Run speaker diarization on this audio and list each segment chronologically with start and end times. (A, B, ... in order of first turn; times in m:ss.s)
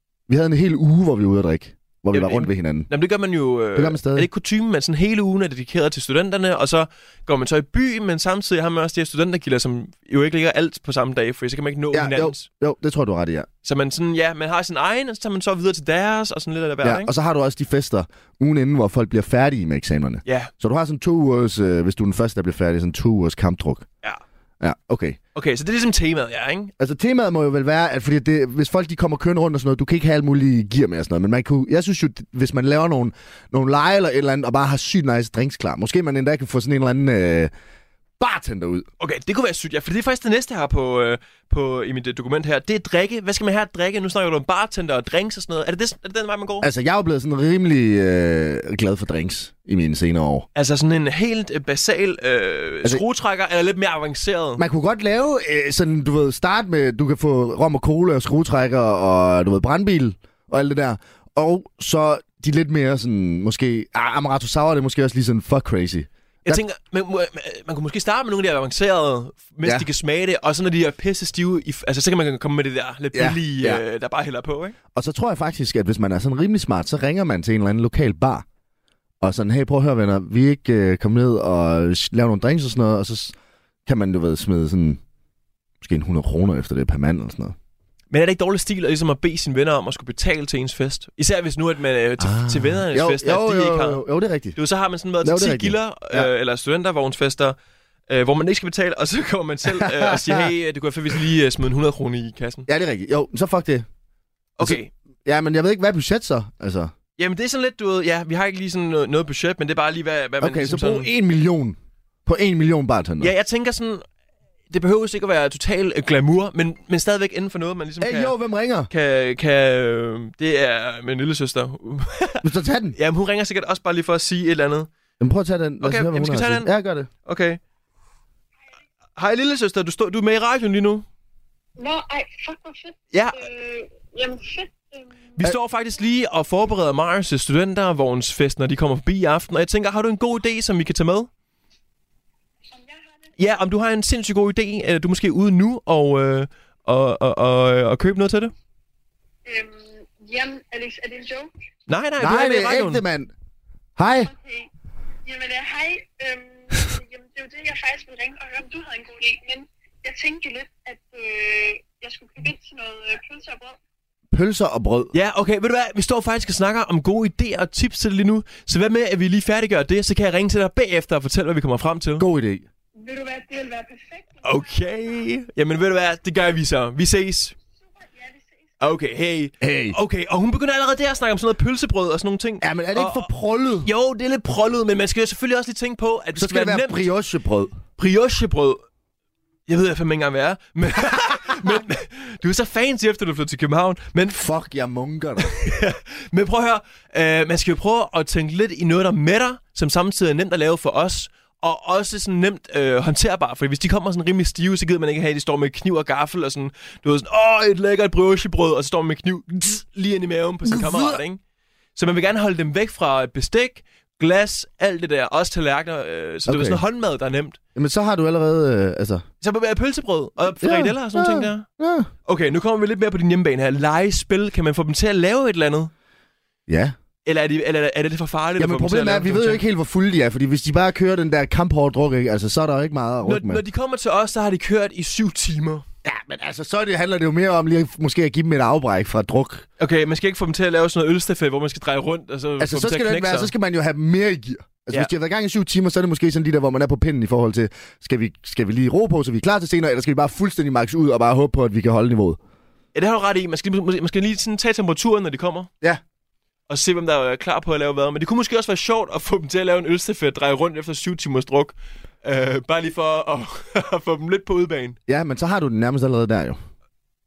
0:00.3-0:02.9 A
0:02.1-0:12.5 B
0:03.7-0:04.3 A
0:11.9-0:13.5 A
0:13.6-0:17.1 B
0:16.8-0:23.9 A
0:20.3-0:20.5 B
0:24.6-0:25.2 A
0:25.3-0:26.7 B
0:26.8-0:37.5 A
0:38.2-0:38.9 A
0:39.0-0:46.7 B
0:46.6-0:50.5 A
0:50.6-0:54.6 B
0:54.6-1:06.6 A
1:06.4-1:14.8 B
1:13.1-1:13.8 A
1:15.0-1:18.4 A
1:19.2-1:23.3 A
1:23.9-1:25.0 A
1:25.8-1:27.6 A
1:28.1-1:34.0 B
1:32.2-1:34.6 A
1:34.6-1:37.6 B
1:35.2-1:36.3 A
1:38.1-1:42.6 B
1:39.8-1:40.5 A
1:42.7-1:43.9 A
1:44.6-1:44.9 B
1:44.6-1:46.9 A
1:47.2-1:51.1 B
1:50.4-1:53.3 A
1:53.2-1:54.0 B
1:54.7-1:58.3 B
1:58.0-1:58.9 A
1:58.9-2:04.9 B
2:02.4-2:03.0 A
2:05.2-2:07.1 A
2:05.8-2:06.7 B
2:07.2-2:07.6 B
2:09.2-2:11.0 B
2:11.8-2:15.4 C
2:13.1-2:13.4 B
2:15.4-2:21.3 B
2:22.7-2:23.3 C
2:23.4-2:28.5 B
2:29.4-2:31.5 C
2:31.9-2:33.0 B
2:32.2-2:33.3 A
2:34.0-2:34.3 A
2:34.2-2:34.7 C
2:35.2-2:43.8 C
2:44.3-2:45.1 A
2:45.1-2:52.3 B
2:52.2-2:52.6 A
2:53.0-2:55.1 C
2:54.4-2:57.6 B
2:57.8-2:58.8 C
2:58.8-3:03.3 B
2:59.6-3:00.0 A
3:02.6-3:03.9 A
3:03.8-3:07.1 B
3:06.4-3:07.7 A
3:08.0-3:08.8 B
3:09.7-3:14.5 B
3:14.4-3:15.6 A
3:15.4-3:31.4 B
3:30.7-3:31.2 A
3:32.0-3:37.6 B
3:36.5-3:36.8 A
3:37.8-3:39.2 A
3:39.4-3:41.6 B
3:40.6-3:42.1 A
3:42.3-3:45.9 B
3:46.7-3:47.0 A
3:47.3-3:49.6 B
3:48.6-3:53.6 A
3:53.2-3:55.9 B
3:56.0-3:59.6 A
3:59.8-4:03.5 B
4:02.6-4:12.4 A
4:12.9-4:15.7 B
4:16.7-4:25.0 B
4:25.1-4:26.6 A